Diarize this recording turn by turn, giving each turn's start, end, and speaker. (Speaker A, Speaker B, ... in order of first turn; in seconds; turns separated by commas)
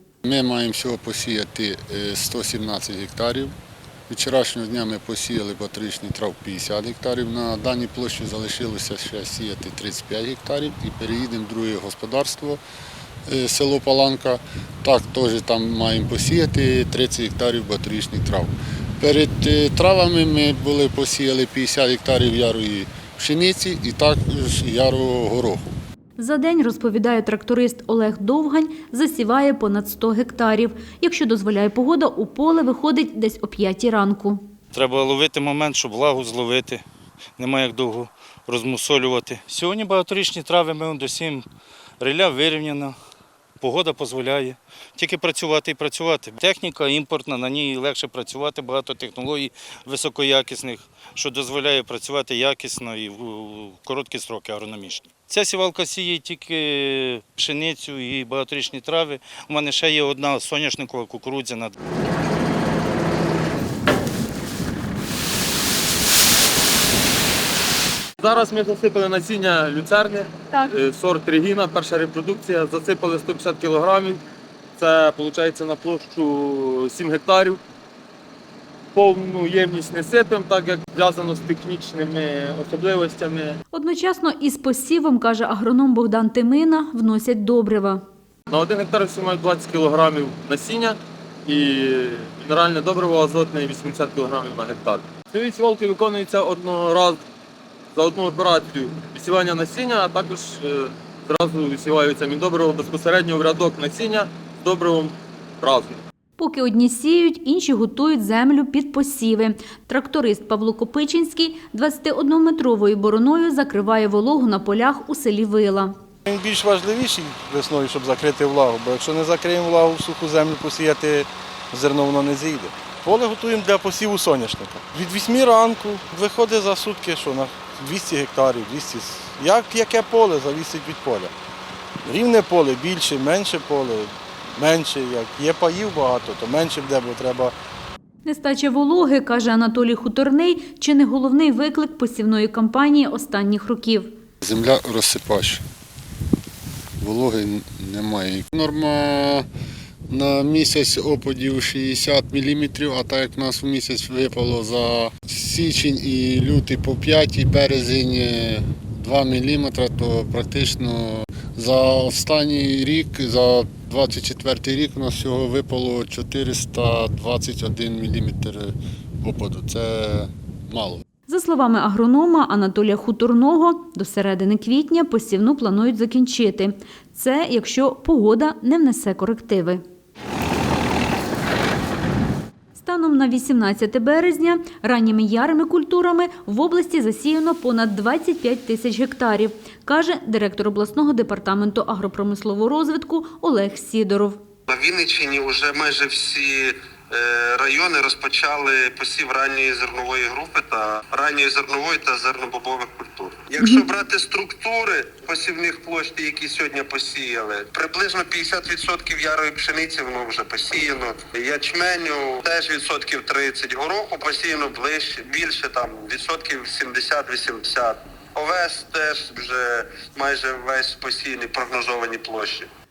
Speaker A: 0.2-3.5, Speaker A: 4.1-12.6, Speaker A: 13.3-25.8, Speaker B: 26.2-34.4, Speaker C: 34.7-36.8, Speaker C: 37.4-41.5, Speaker C: 42.0-43.0, Speaker C: 43.6-61.7, Speaker D: 68.2-74.2, Speaker D: 74.8-77.6, Speaker D: 79.0-83.6, Speaker B: 83.7-88.0, Speaker D: 88.5-97.2, Speaker D: 98.0-106.0, Speaker B: 106.4-116.0, Speaker E: 116.3-131.3, Speaker E: 132.1-137.5, Speaker B: 138.2-144.1, Speaker A: 144.4-145.6, Speaker A: 147.0-149.5, Speaker A: 150.1-171.0, Speaker B: 171.3-179.8, Speaker B: 182.7-194.4, Speaker F: 194.7-222.7